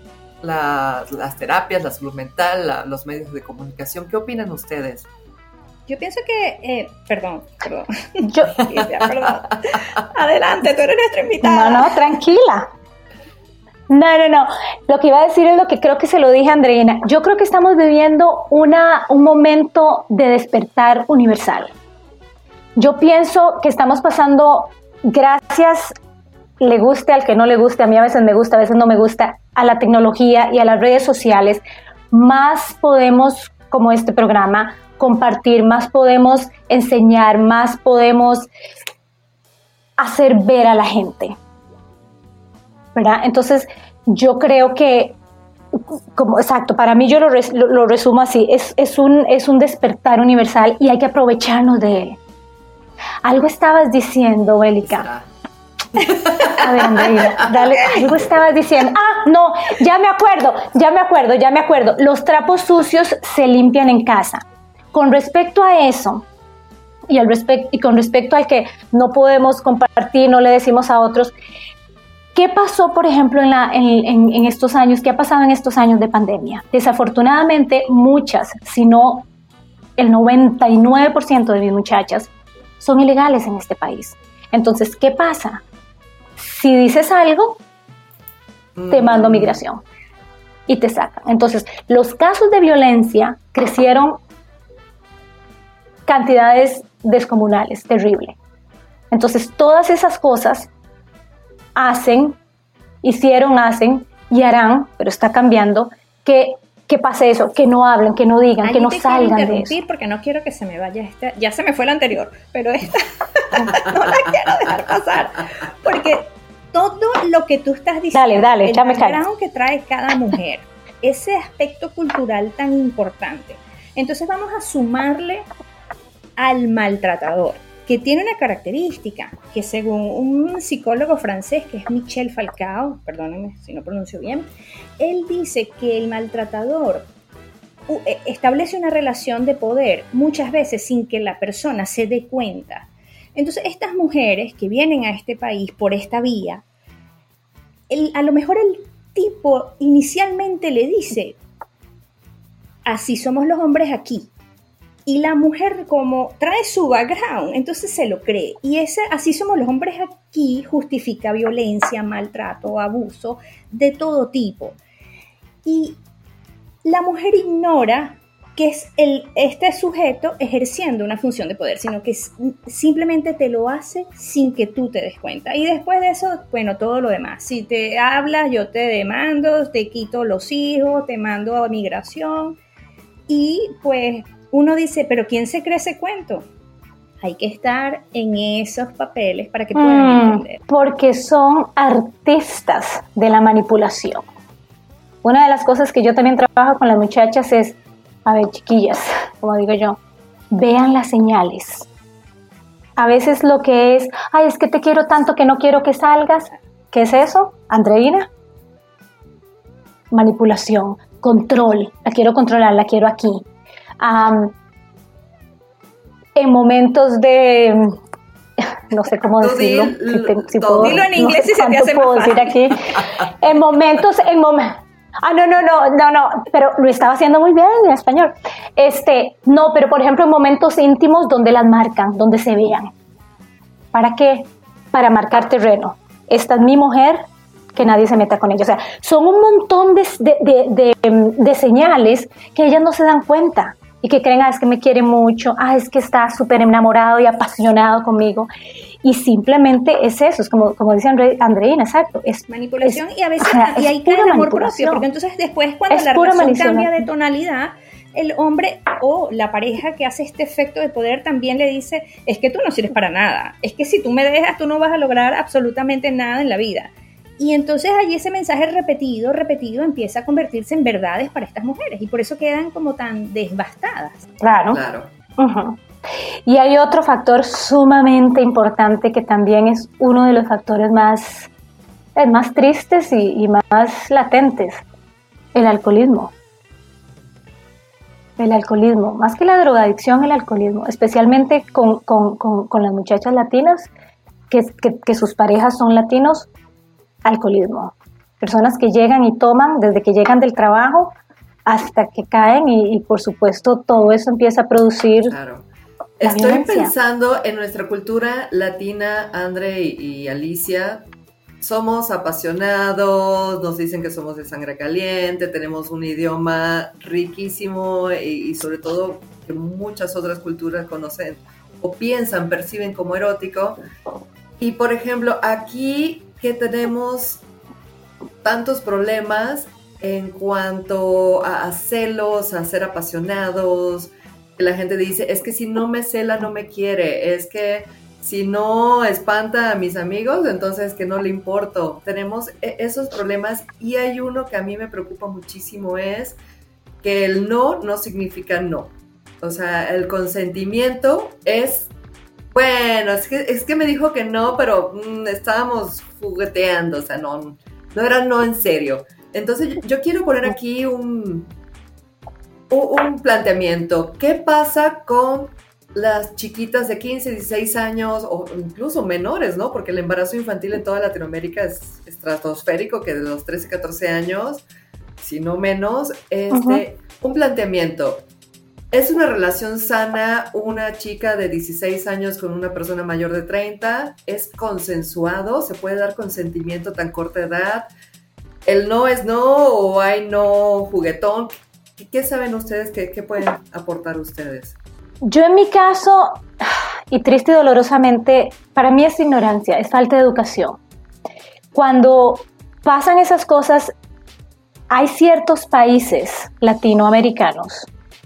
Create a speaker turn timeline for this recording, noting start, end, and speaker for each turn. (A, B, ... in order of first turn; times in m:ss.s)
0:00.4-0:05.1 A
0:05.9-0:12.0 B
0:08.2-0:08.6 C
0:11.4-0:12.7 C
0:13.9-0:21.7 C
0:22.8-0:25.9 C
0:26.6-0:38.5 C
0:40.0-0:41.4 C
0:42.9-0:45.2 C
0:45.7-0:52.2 C
0:53.2-0:55.1 C
0:54.8-0:55.3 A
0:56.0-0:57.5 A
0:56.5-1:04.4 C
1:04.9-1:06.2 C
1:07.1-1:11.3 C
1:12.3-1:19.3 C
1:20.0-1:25.6 C
1:26.4-1:27.6 C
1:28.7-1:29.6 A
1:28.9-1:29.8 C
1:30.7-1:34.2 C
1:36.0-1:38.4 C
1:39.1-1:40.7 C
1:41.8-1:42.4 C
1:43.0-1:49.8 C
1:48.6-2:05.4 B
1:58.1-1:59.2 C
2:06.4-2:17.1 B
2:17.9-2:26.6 B
2:27.9-2:31.4 B
2:32.8-2:34.3 B
2:35.0-2:44.8 B
2:45.6-2:46.0 B
2:46.8-3:02.6 B
3:03.3-3:06.5 B
3:07.2-3:10.6 B
3:09.7-3:14.2 C
3:15.2-3:20.0 C
3:20.5-3:21.9 C
3:23.0-3:28.3 C
3:30.1-3:33.4 C
3:34.0-3:34.5 C
3:36.4-3:38.0 C
3:38.9-3:52.9 C
3:39.4-3:41.3 A
3:40.8-3:42.7 B
3:53.9-3:57.2 C
3:57.7-4:08.5 C
4:09.0-4:15.0 C
4:12.5-4:34.2 B
4:15.9-4:17.0 C
4:34.4-4:34.8 C
4:34.7-4:35.1 A
4:35.4-4:35.8 C
4:36.4-4:41.5 C
4:42.2-4:44.8 C
4:45.5-4:46.3 C
4:48.4-4:53.9 C
4:54.5-4:56.5 C
4:57.2-5:01.1 C
5:01.6-5:05.3 C
5:05.2-5:05.7 A
5:06.2-5:11.1 A
5:06.2-5:06.9 C
5:11.6-5:23.8 A
5:24.6-5:27.4 A
5:28.4-5:46.4 A
5:47.0-5:51.9 A
5:52.5-6:01.5 A
6:02.7-6:14.6 A
6:15.2-6:18.2 A
6:16.5-6:16.8 C
6:18.9-6:27.9 A
6:28.6-6:34.8 A
6:35.2-6:36.4 C
6:37.1-6:40.8 C
6:41.7-6:43.9 C
6:44.9-6:47.9 C